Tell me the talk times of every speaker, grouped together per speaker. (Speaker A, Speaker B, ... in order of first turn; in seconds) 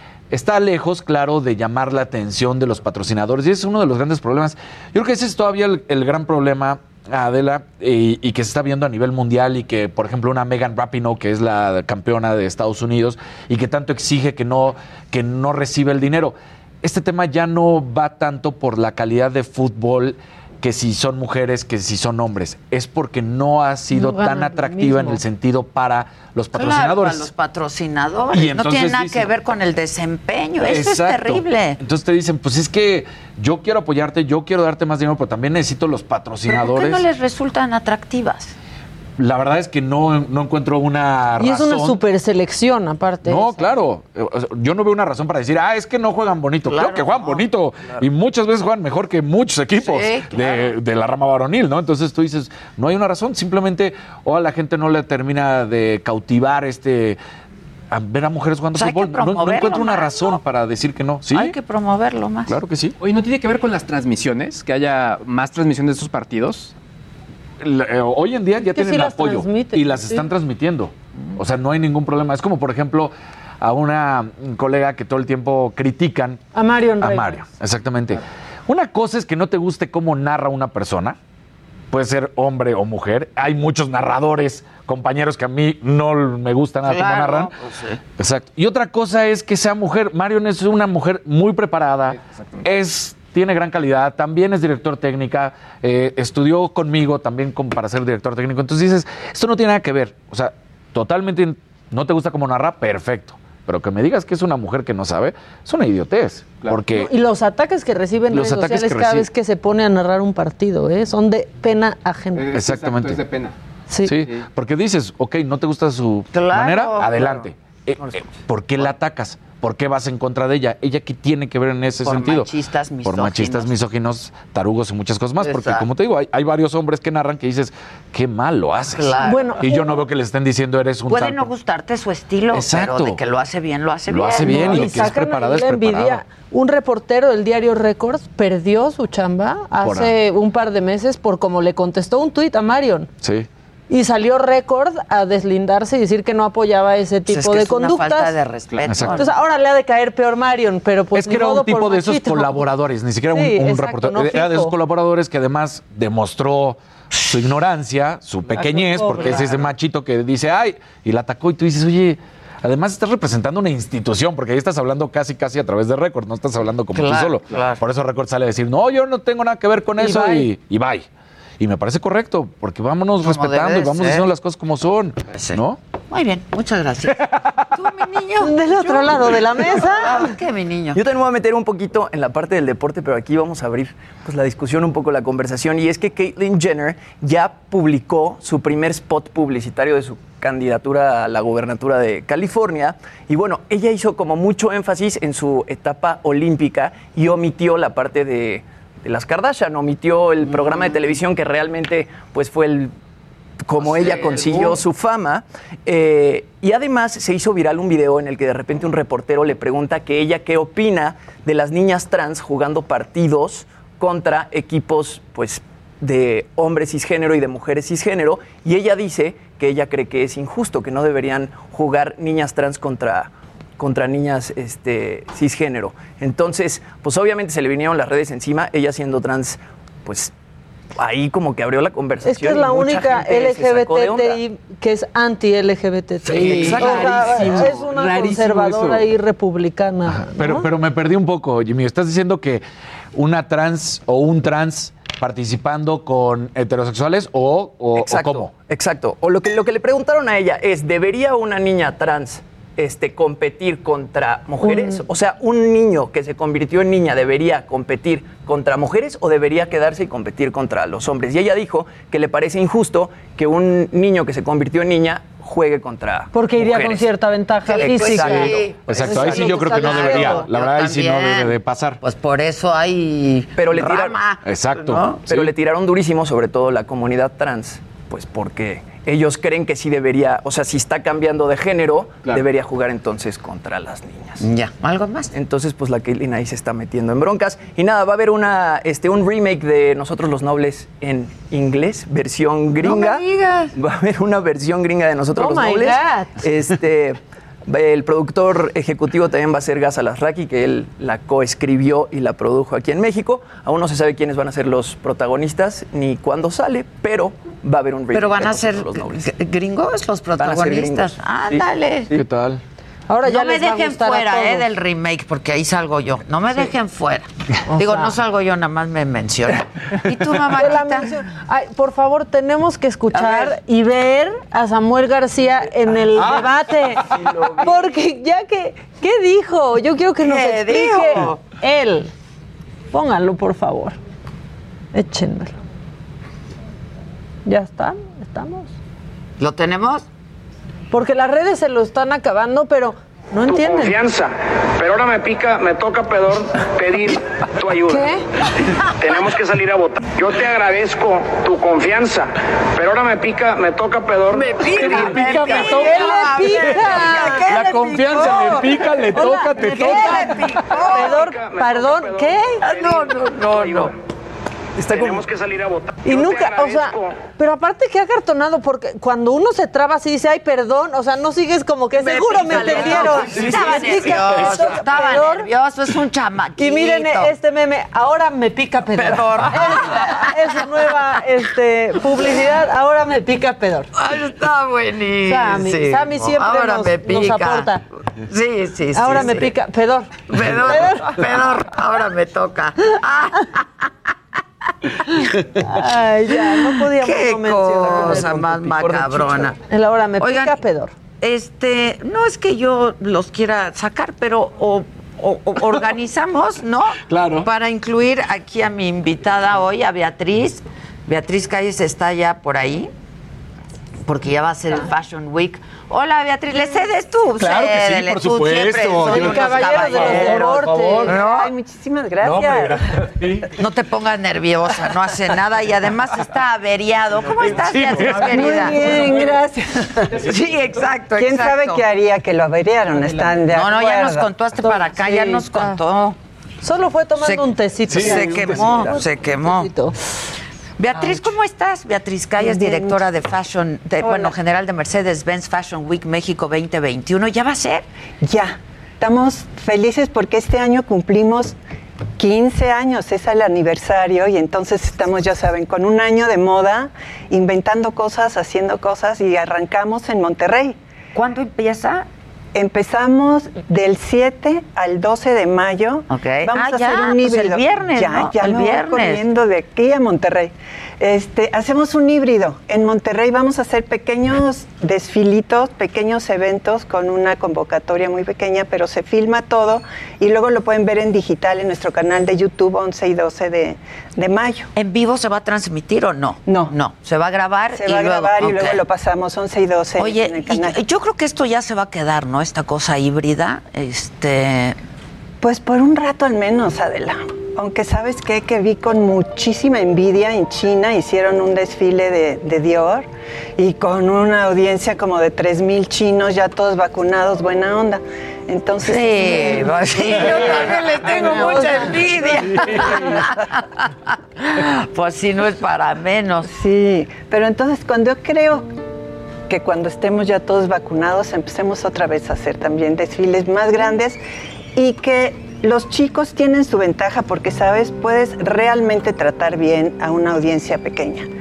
Speaker A: 0.3-27.3, 28.3-29.3, 30.6-37.0, 39.2-42.0, 43.2-57.2, 57.9-61.5, 62.5-63.0, 67.6-76.4, 77.0-81.2, 81.9-87.5, 88.2-107.1, 108.3-109.3, 112.5-113.2, 114.0-122.5, 123.0-131.5, 132.5-133.2, 134.1-136.2, 139.8-140.2, 143.2-143.5, 148.9-149.2, 151.1-156.8, 157.3-171.1, 171.6-175.8, 240.1-248.5, 268.0-272.0, 274.4-275.4, 312.1-312.6, 354.6-360.7, 407.1-407.5, 417.4-421.1, 422.2-423.5, 427.4-429.1, 437.9-438.7
Speaker B: 23.9-25.2, 41.4-43.7, 68.7-70.3, 76.5-77.5, 106.9-112.6, 113.9-114.2, 129.2-129.9, 134.4-143.1, 143.9-148.3, 149.1-152.7, 153.3-154.7, 158.6-159.6, 170.0-170.5, 178.4-180.3, 232.2-240.7, 266.3-269.6, 295.4-296.3, 313.1-314.7, 317.7-318.1, 320.5-332.1, 332.9-334.0, 334.9-335.6, 337.5-338.7, 340.9-344.1, 347.8-348.2, 355.5-357.6, 358.1-358.6, 359.1-362.6, 366.0-375.5, 376.6-383.9, 385.3-387.8, 388.9-391.1, 395.5-400.9, 419.0-421.2, 428.0-429.5, 434.6-435.8, 436.6-439.9, 511.1-511.7
Speaker C: 24.0-24.7, 26.5-31.8, 36.5-38.5, 46.6-47.5, 49.8-50.7, 58.7-60.4, 61.3-62.6, 86.8-88.0, 116.3-117.4, 122.0-123.8, 125.4-125.9, 128.8-129.8, 131.1-135.1, 147.3-149.4, 157.1-157.4, 166.9-167.8, 173.2-174.3, 175.3-181.0, 236.3-237.8, 267.6-275.4, 284.4-285.3, 292.8-293.7, 308.1-312.2, 313.2-321.1, 323.1-323.6, 330.2-331.4, 339.4-340.1, 354.3-358.9, 359.6-361.3, 362.6-363.9, 371.9-377.3, 378.9-380.6, 383.9-389.5, 390.3-393.9, 395.0-395.4, 396.5-399.6, 400.2-400.6, 401.2-412.9, 414.1-421.5, 423.5-429.0, 430.1-431.9, 433.5-436.2, 437.2-439.7, 440.8-447.9, 461.1-462.1, 466.1-469.2, 484.8-488.8, 490.0-494.8, 508.8-516.5
Speaker D: 63.0-66.7, 92.1-92.7, 106.6-106.9, 112.3-113.6, 148.7-149.2, 203.9-204.8, 236.4-239.1
Speaker E: 180.9-202.9, 203.6-230.3, 231.0-234.4, 247.9-267.1, 273.6-274.2, 275.3-284.4, 285.3-293.2, 293.8-309.3, 310.4-312.2, 364.8-365.3, 397.9-399.5
Speaker F: 343.9-344.3, 344.8-347.1, 349.1-352.3, 352.8-354.4, 361.7-362.0, 365.1-366.8
Speaker G: 421.1-422.8, 428.4-430.2, 431.2-434.3, 442.4-443.1, 444.0-444.4, 448.2-451.6, 452.2-460.8, 462.6-484.7, 486.5-486.8, 487.7-490.8, 495.4-512.4, 516.5-518.7, 519.5-524.2, 524.8-531.3